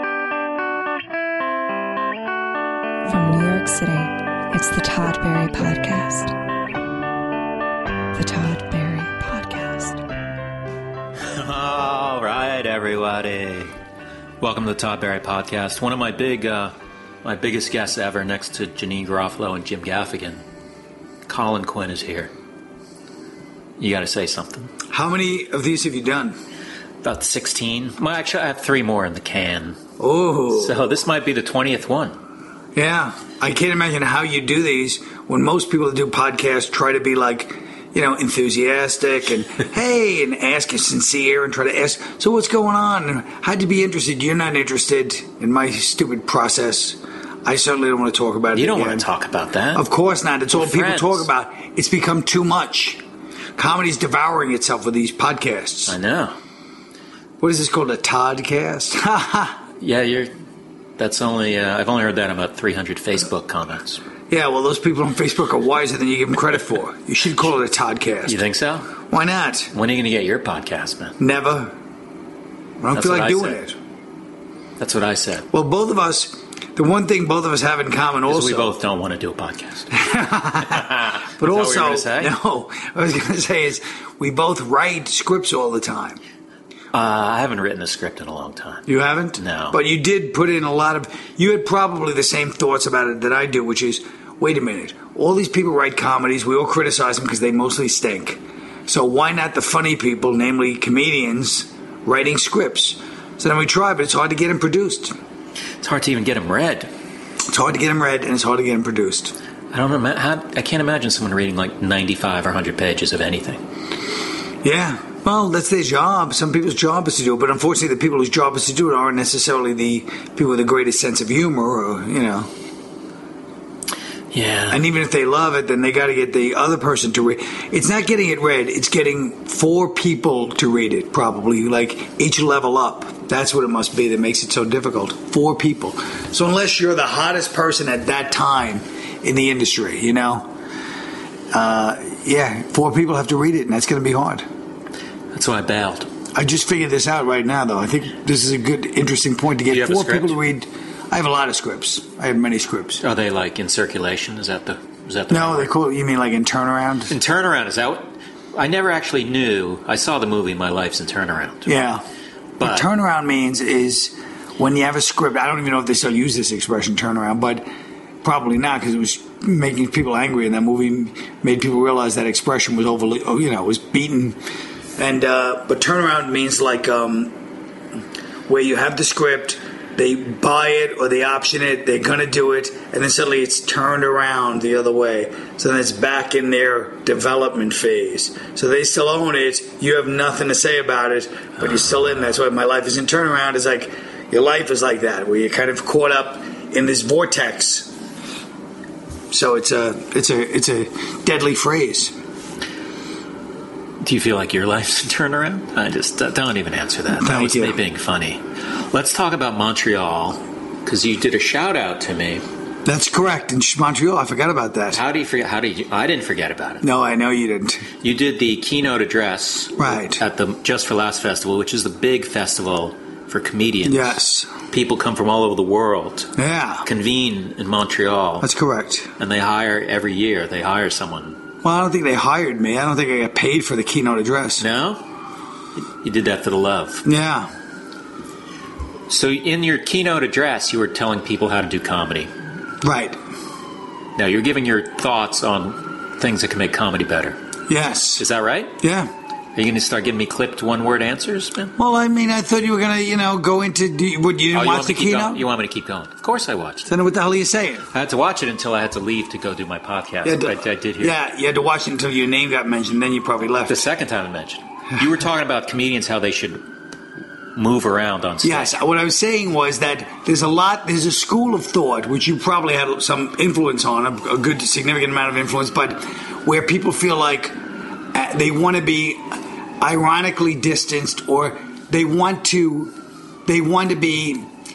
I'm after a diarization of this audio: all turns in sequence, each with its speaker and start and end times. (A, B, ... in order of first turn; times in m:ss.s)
0:03.1-0:06.3 A
0:08.2-0:10.0 A
0:11.3-0:13.7 B
0:14.4-0:16.7 B
0:17.2-0:20.4 B
0:21.3-0:22.3 B
0:23.8-0:24.7 B
0:24.9-0:26.4 C
0:27.0-0:29.8 B
0:30.0-0:30.8 C
0:30.5-0:32.2 B
0:32.8-0:49.0 C
0:48.6-0:49.9 B
0:49.8-0:53.0 C
0:50.5-0:51.3 B
0:53.6-0:56.0 C
0:55.9-0:56.4 B
0:57.4-0:59.6 C
0:59.8-1:00.3 B
1:01.0-1:04.0 B
1:04.3-1:08.4 C
1:08.3-1:08.9 B
1:09.1-1:09.7 C
1:09.7-1:11.2 B
1:11.2-1:11.8 C
1:12.8-1:13.8 C
1:12.9-1:13.6 B
1:14.8-1:15.5 B
1:15.5-1:18.7 C
1:18.3-1:20.0 B
1:19.9-1:26.2 C
1:20.6-1:22.3 B
1:26.9-1:28.9 B
1:28.9-1:45.1 C
1:29.4-1:29.8 B
1:45.8-1:46.9 B
1:47.5-1:49.4 C
1:49.7-1:53.6 B
1:54.6-2:02.5 C
2:04.3-2:04.8 B
2:04.7-2:20.5 C
2:21.5-2:24.5 C
2:25.3-2:26.1 B
2:26.3-2:33.0 C
2:29.7-2:30.4 B
2:33.0-2:35.8 B
2:35.3-2:37.1 C
2:37.1-2:41.7 B
2:41.7-2:42.0 C
2:42.6-2:42.9 B
2:42.6-2:47.7 C
2:48.2-2:54.4 C
2:55.0-2:57.4 C
2:58.5-3:17.9 C
3:19.3-3:22.1 C
3:24.0-3:32.4 B
3:27.1-3:27.8 C
3:32.8-3:35.0 C
3:34.9-3:36.8 B
3:36.8-3:37.9 C
3:38.0-3:44.2 B
3:39.8-3:40.2 C
3:43.8-3:44.5 C
3:44.7-3:46.3 B
3:46.4-3:46.9 C
3:46.8-3:48.5 B
3:48.4-3:49.1 C
3:49.2-3:51.4 B
3:51.6-3:54.6 C
3:54.6-3:55.0 B
3:55.8-3:57.0 B
3:57.0-3:57.5 C
3:59.1-4:02.3 B
4:02.8-4:03.2 C
4:04.2-4:07.4 B
4:07.7-4:08.2 C
4:08.2-4:08.8 B
4:08.8-4:09.1 C
4:09.6-4:11.7 B
4:11.8-4:15.4 C
4:14.5-4:16.9 B
4:16.9-4:17.9 C
4:17.9-4:21.1 B
4:20.2-4:23.8 C
4:23.7-4:26.6 B
4:27.6-4:28.8 B
4:28.4-4:37.6 C
4:38.1-4:42.9 C
4:43.5-4:44.5 C